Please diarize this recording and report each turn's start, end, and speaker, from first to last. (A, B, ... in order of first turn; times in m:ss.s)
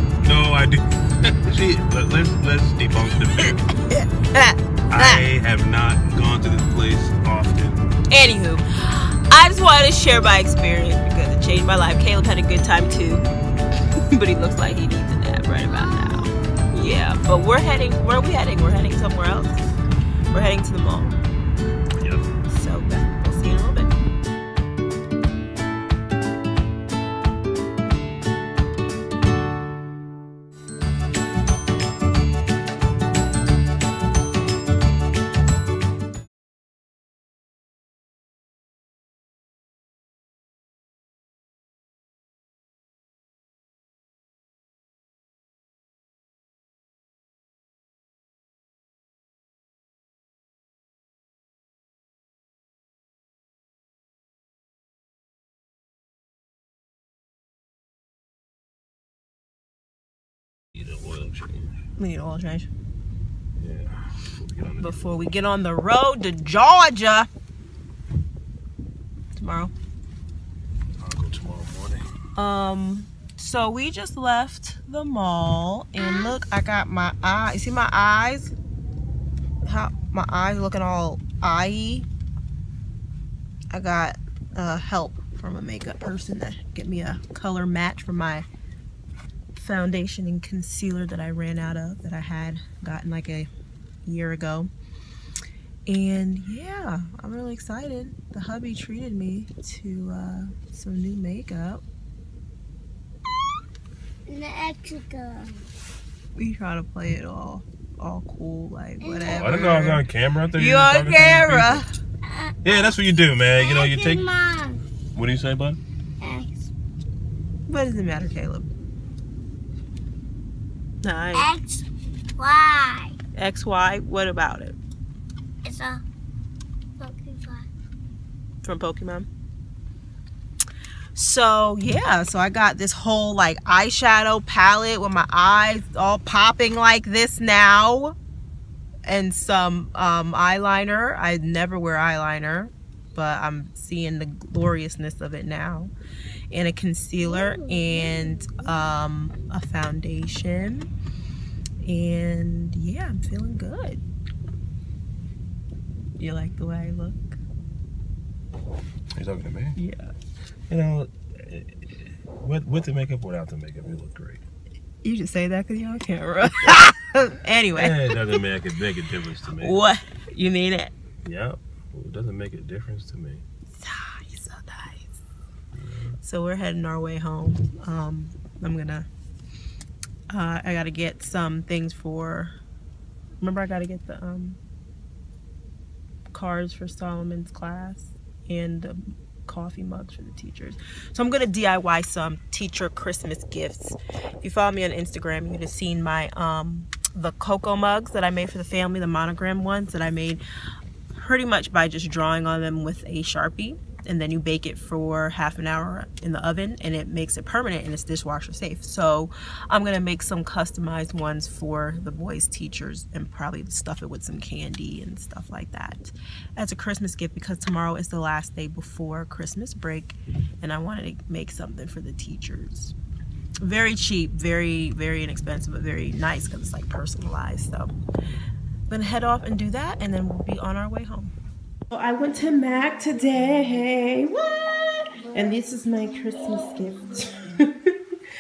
0:00.2-0:03.7 A
0:03.4-0:05.3 B
0:04.9-0:07.8 A
0:08.1-0:13.3 B
0:14.1-0:19.6 B
0:15.6-0:16.6 C
0:20.3-0:21.2 B
0:22.0-0:22.3 A
0:22.5-0:23.9 B
1:00.7-1:01.7 A
1:02.0-1:02.7 B
1:03.6-1:05.3 A
1:04.8-1:07.3 B
1:09.4-1:09.7 B
1:11.0-1:12.0 A
1:12.4-1:18.5 B
1:19.6-1:22.1 B
1:23.7-1:28.5 B
1:29.6-1:33.5 B
1:34.0-1:34.7 B
1:35.9-1:41.8 B
1:44.3-1:45.6 C
1:46.4-1:50.0 B
1:49.0-1:49.6 C
1:49.3-1:51.8 A
1:50.6-1:51.9 B
1:52.2-1:53.0 C
1:52.6-1:54.2 A
1:53.5-1:54.8 C
1:55.2-1:55.8 A
1:56.2-1:56.7 C
1:57.7-1:58.7 B
2:01.0-2:01.5 B
2:01.3-2:01.9 C
2:02.4-2:03.2 C
2:03.4-2:04.8 B
2:05.6-2:06.0 C
2:07.0-2:07.7 C
2:08.6-2:09.3 B
2:11.2-2:18.2 B
2:19.1-2:25.9 B
2:26.5-2:30.9 B
2:31.8-2:34.0 B
2:36.2-2:37.4 B
2:39.2-2:39.8 A
2:39.8-2:40.1 B
2:40.7-2:44.4 A
2:45.0-2:48.4 B
2:47.8-2:49.8 A
2:49.6-2:50.9 B
2:51.2-2:53.4 A
2:53.7-2:55.1 B
2:55.8-2:56.2 A
2:56.2-2:59.1 B
3:00.3-3:02.5 B
3:03.4-3:04.6 B
3:06.3-3:20.4 B
3:21.1-3:43.0 B
3:43.6-3:47.9 B
3:48.9-3:51.3 B
3:51.9-3:58.2 B